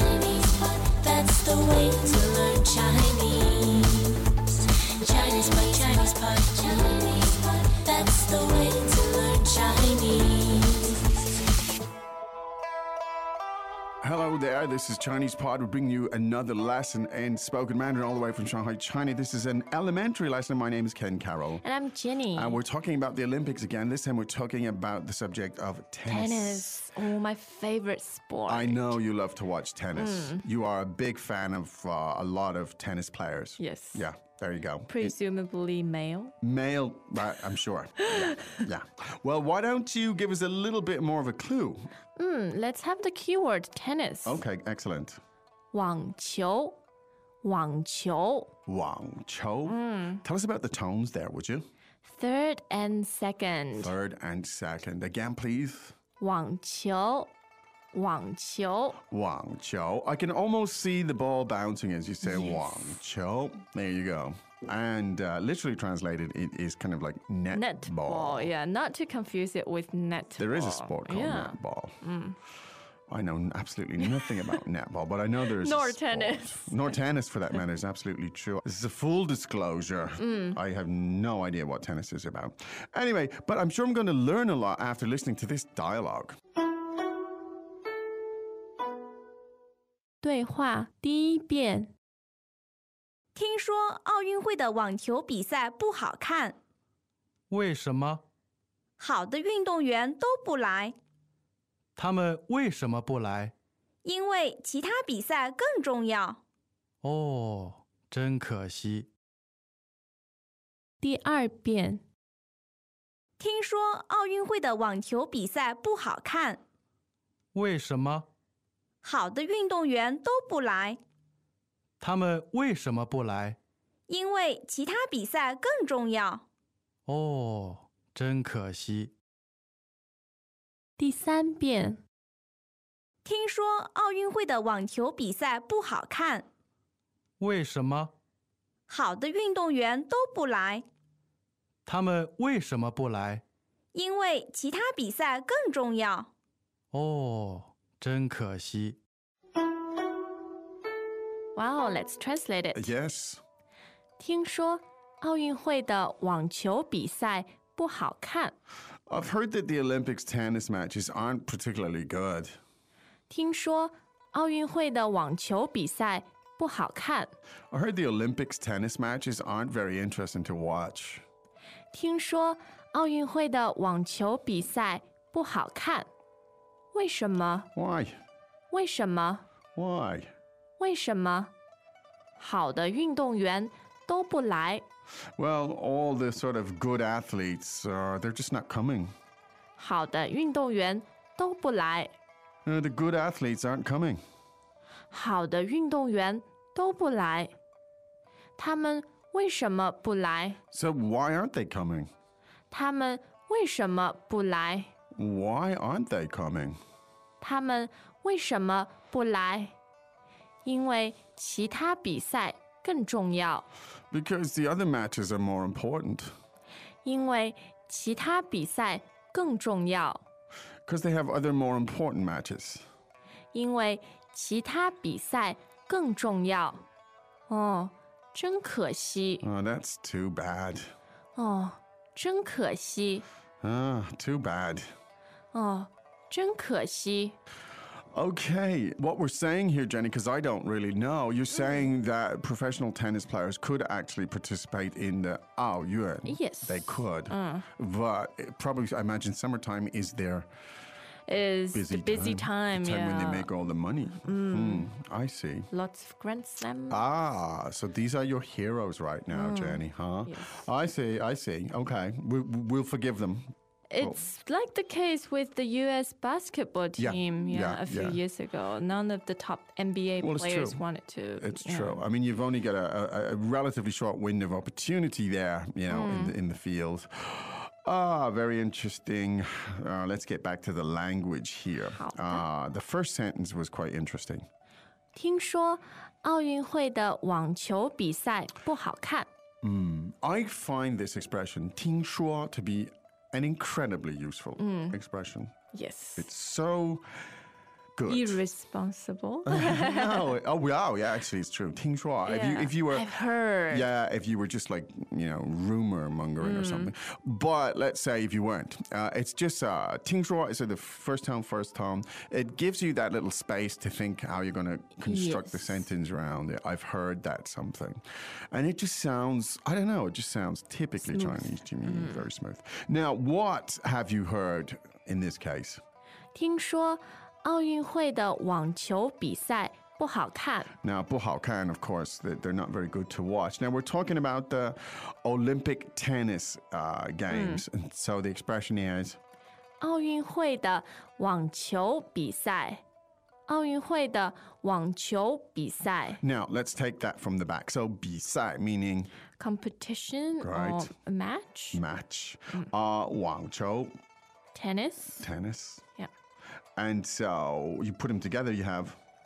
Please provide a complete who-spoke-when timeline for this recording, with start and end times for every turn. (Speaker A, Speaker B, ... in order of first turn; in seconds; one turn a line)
Speaker A: 1.3-3.4
Speaker A: 5.2-6.6
Speaker A: 7.8-10.3
Speaker B: 14.0-21.6
Speaker C: 21.6-22.6
Speaker B: 22.3-26.9
Speaker C: 26.1-28.9
Speaker B: 28.5-35.1
Speaker C: 29.9-30.4
Speaker C: 33.6-34.0
Speaker C: 34.9-36.3
Speaker B: 36.4-41.9
Speaker C: 42.1-44.4
Speaker B: 44.2-45.2
Speaker C: 45.7-46.8
Speaker C: 47.4-48.5
Speaker B: 48.7-51.6
Speaker C: 49.6-50.2
Speaker C: 52.0-53.9
Speaker B: 53.8-56.0
Speaker C: 56.2-57.3
Speaker C: 57.9-59.0
Speaker B: 59.1-68.5
Speaker C: 62.2-63.0
Speaker C: 67.5-72.4
Speaker B: 70.4-72.0
Speaker B: 73.1-86.3
Speaker C: 74.1-74.5
Speaker C: 75.5-76.9
Speaker C: 80.2-80.6
Speaker C: 90.2-91.9
Speaker D: 93.3-96.5
Speaker E: 97.5-98.2
Speaker D: 99.0-100.9
Speaker E: 102.0-103.5
Speaker D: 104.0-106.4
Speaker E: 107.0-109.1
Speaker C: 111.0-112.0
Speaker D: 113.4-116.6
Speaker E: 117.5-118.2
Speaker D: 119.0-121.0
Speaker E: 122.0-123.6
Speaker D: 124.1-126.4
Speaker E: 127.1-129.1
Speaker C: 131.0-132.0
Speaker D: 133.2-136.4
Speaker E: 137.4-138.1
Speaker D: 138.9-140.8
Speaker E: 141.8-143.4
Speaker D: 143.9-146.3
Speaker E: 146.9-149.0
Speaker C: 151.5-152.9
Speaker B: 152.7-153.4
Speaker C: 154.2-158.5
Speaker B: 159.1-162.6
Speaker C: 163.3-167.3
Speaker B: 167.7-171.2
Speaker C: 171.9-176.1
Speaker C: 176.9-177.7
Speaker B: 177.7-178.2
Speaker C: 178.7-179.4
Speaker B: 179.8-180.3
Speaker C: 180.8-181.5
Speaker C: 182.4-184.8
Speaker B: 185.3-189.1
Speaker C: 189.8-192.1
Speaker B: 192.6-194.2
Speaker C: 195.1-197.5
Speaker C: 198.6-200.6
Speaker B: 200.7-202.1
Speaker C: 202.7-204.9
Speaker B: 205.1-206.8
Speaker C: 207.4-209.7
Speaker C: 210.6-213.7
Speaker B: 214.1-216.3
Speaker C: 217.0-220.2
Speaker B: 220.8-222.8
Speaker C: 223.5-226.8
Speaker C: 227.5-229.4
Speaker B: 229.4-230.9
Speaker C: 231.3-233.2
Speaker B: 233.6-234.9
Speaker C: 235.5-237.4
Speaker B: 238.1-250.5
Speaker C: 246.2-247.7
Speaker C: 251.3-253.5
Speaker B: 251.7-255.7
Speaker C: 254.2-254.8
Speaker C: 255.7-257.0
Speaker B: 256.9-264.2
Speaker C: 259.3-260.6
Speaker C: 263.9-272.0
Speaker B: 267.0-268.2
Speaker B: 270.2-270.8
Speaker B: 271.4-284.4
Speaker C: 275.9-276.4
Speaker C: 281.9-282.4
Speaker C: 285.1-289.3
Speaker B: 289.6-295.5
Speaker C: 294.6-295.0
Speaker C: 295.7-296.3
Speaker B: 296.2-297.0
Speaker B: 297.9-298.4
Speaker C: 298.1-300.3
Speaker B: 299.4-303.1
Speaker C: 302.2-303.9
Speaker B: 303.7-325.8
Speaker C: 306.4-306.9
Speaker C: 315.0-315.8
Speaker C: 321.1-322.2
Speaker C: 326.3-330.7
Speaker B: 330.8-339.2
Speaker C: 337.3-337.6
Speaker C: 339.8-342.8
Speaker C: 343.5-346.2
Speaker B: 346.2-349.1
Speaker C: 349.4-351.8
Speaker B: 350.4-350.9
Speaker B: 351.7-353.9
Speaker C: 354.5-355.3
Speaker B: 355.2-355.8
Speaker B: 356.8-359.0